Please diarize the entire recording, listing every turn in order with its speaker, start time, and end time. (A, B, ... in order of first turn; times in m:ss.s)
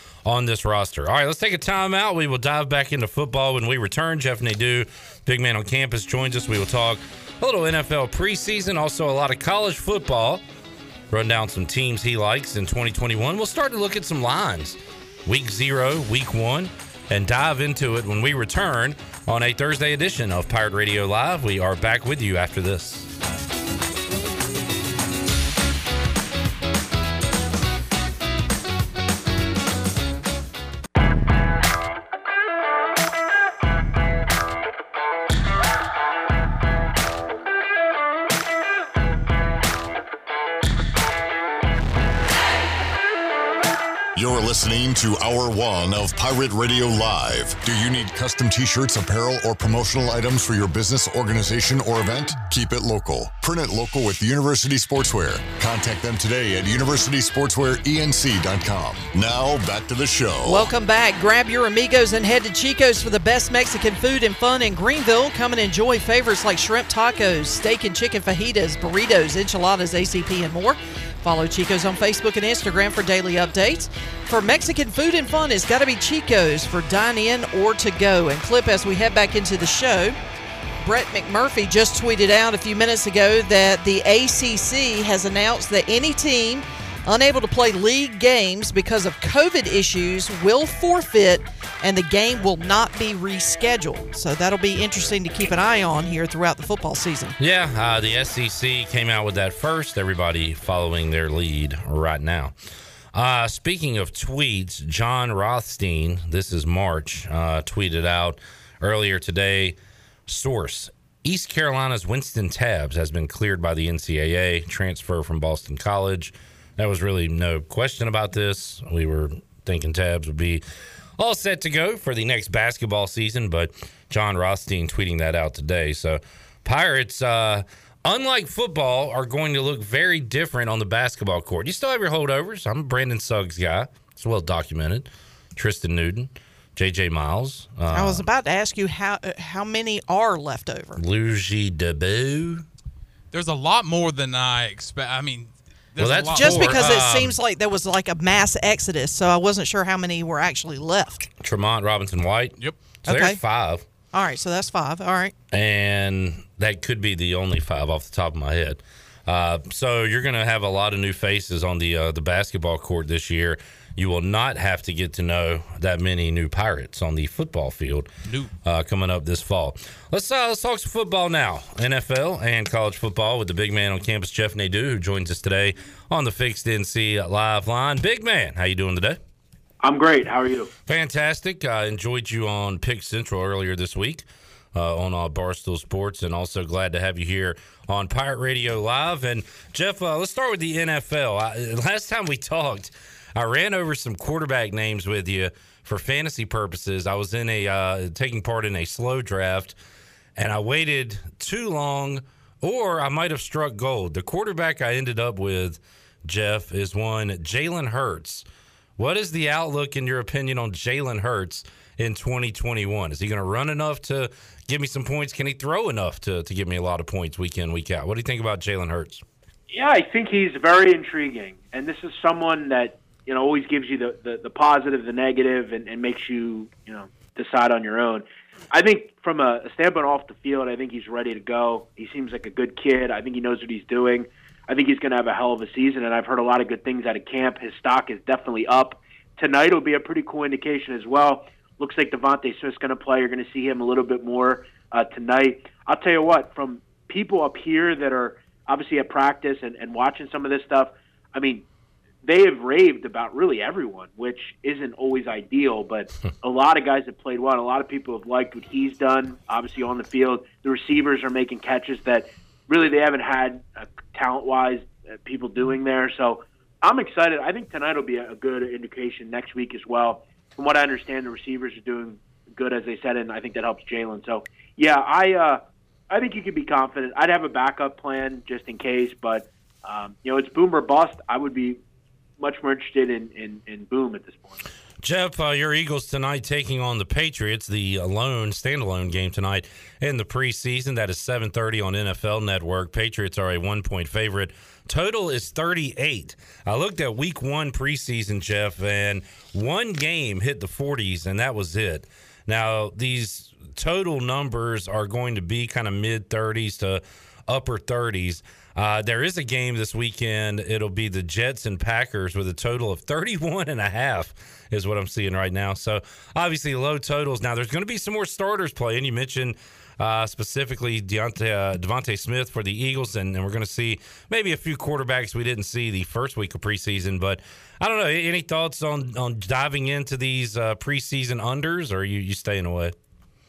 0:00.2-0:10.4 A
0:11.1-0:23.1 A
0:44.1-1:00.7 B
1:00.4-1:20.2 C
1:20.8-1:37.4 C
1:37.4-1:42.5 A
1:43.1-1:49.8 A
1:50.3-2:00.6 A
2:01.2-2:18.2 A
2:17.9-2:21.0 C
2:21.0-2:22.6 A
2:23.3-2:27.0 D
2:26.0-2:27.4 A
2:26.3-2:31.3 C
2:31.4-2:33.8 A
2:33.0-2:33.4 C
2:34.1-2:35.3 C
2:35.5-2:48.1 A
2:48.2-2:48.5 D
2:48.6-2:59.2 A
2:59.8-3:00.7 E
3:00.9-3:19.8 A
3:20.4-3:28.4 A
3:29.0-3:39.2 A
3:39.7-4:11.6 E
4:12.2-4:41.8 E
4:42.4-4:44.6 E
4:45.0-5:32.9 A